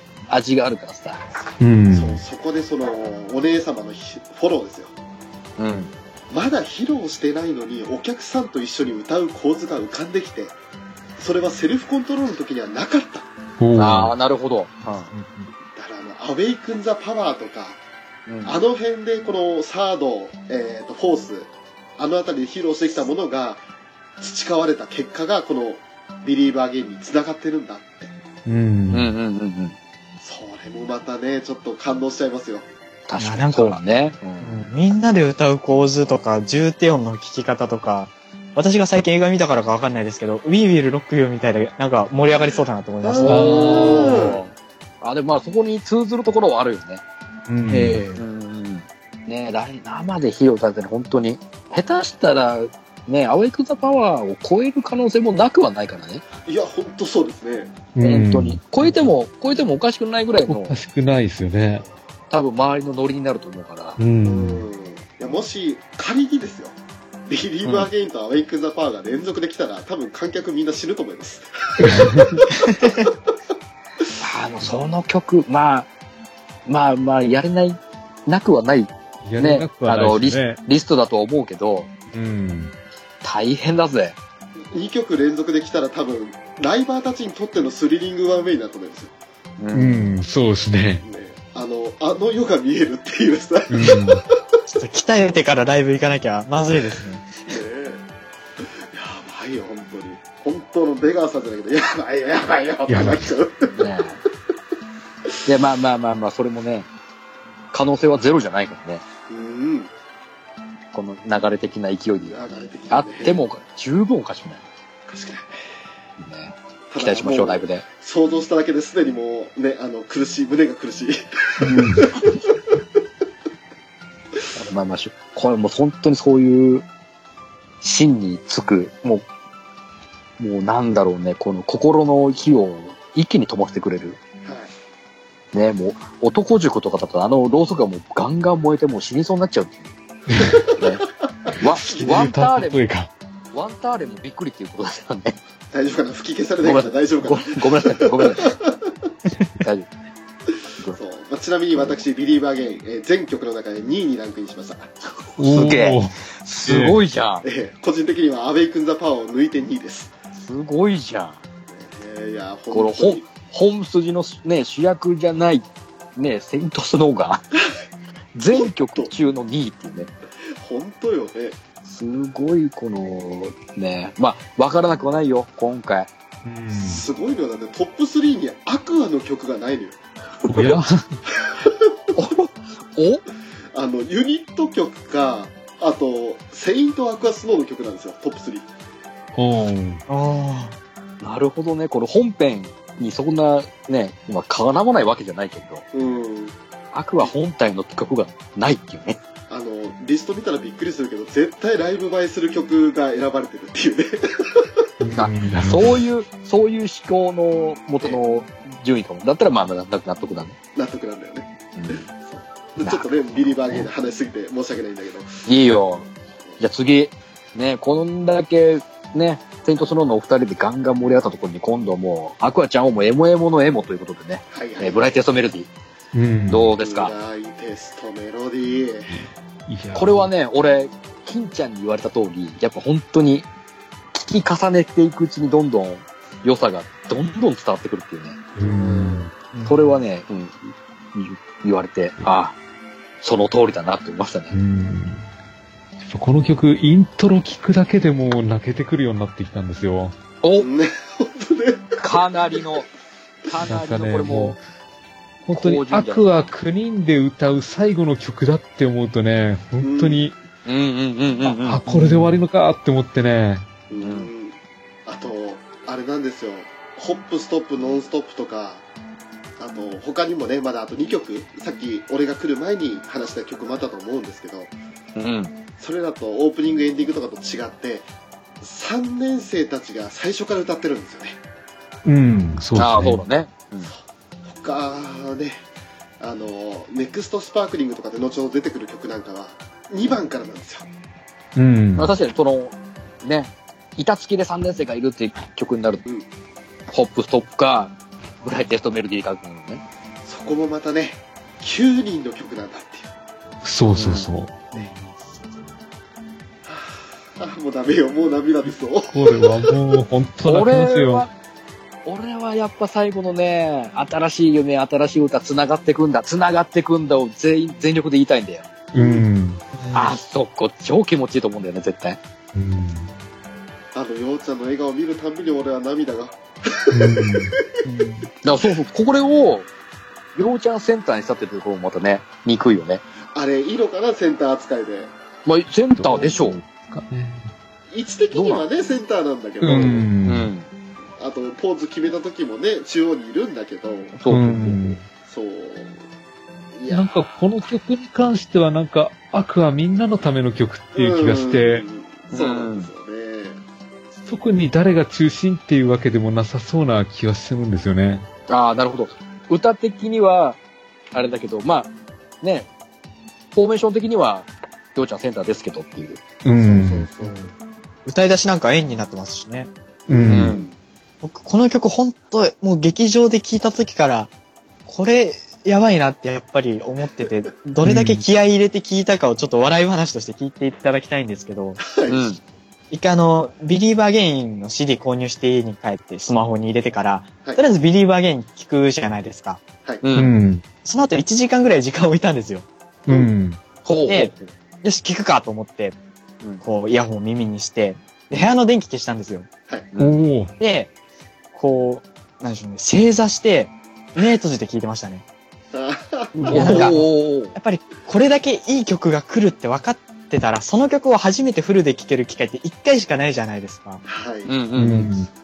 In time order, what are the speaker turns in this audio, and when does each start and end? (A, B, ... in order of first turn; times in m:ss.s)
0:00.3-0:01.2 A
0:01.6-0:02.2 B
0:01.9-0:04.9 C
0:05.6-0:05.9 A
0:06.3-0:10.6 C
0:11.2-0:13.3 C
0:13.6-0:14.1 B
0:13.8-0:15.1 A
0:15.1-0:15.5 D
0:15.8-0:17.8 C
0:18.3-0:18.6 A
0:18.4-0:23.6 C
0:24.2-0:28.1 C
0:28.4-0:29.1 B
0:28.9-0:29.8 A
0:30.2-0:32.6 C
0:33.1-0:34.6 A
0:33.2-0:33.8 D
0:34.4-0:43.9 D
0:43.0-0:44.4 C
0:43.2-0:44.3 B
0:43.3-0:47.0 A
0:47.5-0:48.0 B
0:47.7-0:48.2 D
0:48.1-0:56.2 A
0:56.4-0:57.7 C
0:57.9-0:59.1 B
0:58.0-1:00.7 A
1:00.4-1:01.8 B
1:02.3-1:04.0 A
1:04.0-1:04.6 B
1:04.2-1:13.1 C
1:07.6-1:07.9 A
1:11.8-1:12.4 B
1:12.5-1:13.0 D
1:14.2-1:15.9 A
1:16.6-1:21.9 A
1:19.2-1:20.6 B
1:22.1-1:22.7 B
1:23.2-1:24.2 A
1:24.7-1:29.1 C
1:29.6-1:30.1 A
1:29.7-1:31.0 B
1:31.0-1:34.2 C
1:33.7-1:34.2 B
1:34.7-1:37.3 D
1:37.5-1:38.0 C
1:38.6-1:43.8 C
1:42.9-1:43.3 B
1:43.8-1:44.2 A
1:45.4-1:46.9 A
1:47.7-1:49.0 A
1:49.3-1:49.9 C
1:50.9-1:54.6 A
1:52.3-1:53.4 C
1:55.1-1:55.6 C
1:56.2-1:57.8 A
1:56.9-2:02.5 C
2:01.6-2:02.1 B
2:04.6-2:06.8 A
2:07.8-2:09.2 A
2:10.4-2:14.2 A
2:14.4-2:14.7 C
2:15.5-2:19.9 A
2:20.3-2:20.6 B
2:20.8-2:21.0 A
2:21.6-2:22.8 A
2:21.6-2:23.1 B
2:21.8-2:22.2 C
2:23.5-2:25.4 A
2:25.7-2:28.9 C
2:26.6-2:28.5 A
2:29.6-2:29.9 A
2:30.9-2:34.8 C
2:35.4-2:37.4 A
2:35.4-2:37.0 B
2:37.4-2:40.1 C
2:40.4-2:41.4 A
2:41.7-2:43.2 C
2:42.7-2:47.4 A
2:48.3-2:50.1 A
2:48.5-2:49.1 C
2:50.6-2:51.6 C
2:51.8-2:56.1 A
2:56.4-2:57.0 B
2:56.7-3:00.0 C
3:00.4-3:00.8 A
3:00.5-3:01.1 B
3:01.4-3:01.7 C
3:02.1-3:03.2 A
3:03.7-3:08.7 C
3:09.3-3:10.0 B
3:10.1-3:10.7 D
3:11.2-3:15.8 A
3:15.9-3:16.5 C
3:16.9-3:19.2 A
3:19.5-3:24.7 C
3:25.0-3:26.0 B
3:25.1-3:30.6 A
3:30.7-3:35.4 C
3:31.7-3:32.1 A
3:32.8-3:33.8 A
3:35.4-3:45.7 A
3:44.5-3:45.2 C
3:46.1-3:46.7 B
3:46.5-3:47.1 A
3:46.8-3:49.3 C
3:49.7-3:50.3 B
3:49.9-3:53.5 A
3:54.1-3:58.4 A
3:58.6-3:59.3 B
3:58.6-3:59.3 C
3:59.5-3:59.9 D
3:59.6-4:02.6 A
4:03.2-4:04.6 A
4:04.5-4:05.3 B
4:06.0-4:10.1 B
4:10.4-4:10.7 A
4:10.6-4:12.0 C
4:12.0-4:12.9 A
4:13.4-4:14.6 A
4:13.6-4:14.6 B
4:15.4-4:20.4 B
4:15.5-4:16.3 A
4:19.8-4:20.3 C
4:20.6-4:21.8 A
4:21.4-4:23.7 B
4:21.8-4:22.4 D
4:23.9-4:28.8 C
4:24.0-4:24.3 A
4:29.6-4:34.7 C
4:35.2-4:35.5 A
4:35.8-4:38.1 C
4:38.6-4:41.4 C
4:42.0-4:43.2 B
4:42.7-4:43.9 A
4:44.5-4:45.6 C
4:46.2-4:50.9 C
4:51.5-4:52.1 B
4:52.0-4:56.0 A
4:56.9-4:59.8 A
5:00.2-5:03.1 C
5:03.6-5:04.7 B
5:03.9-5:04.3 A
5:04.7-5:05.2 D
5:06.6-5:09.7 C
5:09.1-5:11.2 B
5:10.4-5:11.3 A
5:12.0-5:18.7 A
5:18.9-5:19.6 B
5:18.9-5:19.2 C
5:19.7-5:20.2 D
5:19.9-5:22.2 A
5:22.5-5:23.1 B
5:23.9-5:27.6 C
5:26.9-5:27.6 B
5:27.8-5:28.3 D
5:28.4-5:29.7 A
5:30.4-5:33.0 A
5:33.3-5:35.1 C
5:35.4-5:36.6 A
5:36.0-5:37.5 B
5:37.9-5:40.1 C
5:38.3-5:38.7 A
5:39.6-5:40.5 B
5:39.7-5:40.7 A
5:41.2-5:44.1 C
5:44.1-5:45.0 A
5:44.3-5:45.0 B
5:45.2-5:46.0 C
5:46.7-5:47.4 C
5:46.9-5:51.8 B
5:50.9-5:53.6 C
5:52.3-5:52.9 A
5:54.2-5:58.2 B
5:58.5-6:00.6 A
6:01.1-6:01.9 A
6:02.4-6:02.7 A
6:03.5-6:06.2 A
6:06.4-6:07.4 B
6:06.6-6:07.5 C
6:08.0-6:09.7 D
6:10.1-6:10.6 B
6:10.1-6:10.7 C
6:10.2-6:10.7 A
6:11.2-6:14.3 D
6:14.8-6:21.8 D
6:17.8-6:18.2 B
6:21.8-6:22.3 C
6:22.1-6:22.4 A
6:22.9-6:29.6 D
6:30.0-6:30.3 A
6:30.1-6:30.6 B
6:30.8-6:32.7 D
6:33.1-6:33.6 B
6:33.8-6:34.5 A
6:34.1-6:34.3 D
6:34.8-6:36.0 D
6:36.6-6:39.5 D
6:39.9-6:40.2 A
6:40.0-6:40.5 B
6:40.6-6:40.9 D
6:41.5-6:45.2 D
6:45.7-6:46.8 C
6:46.3-6:47.0 B
6:46.5-6:47.5 A
6:46.5-6:54.0 D
6:54.1-6:54.5 C
6:54.4-6:55.1 A
6:54.7-6:55.3 B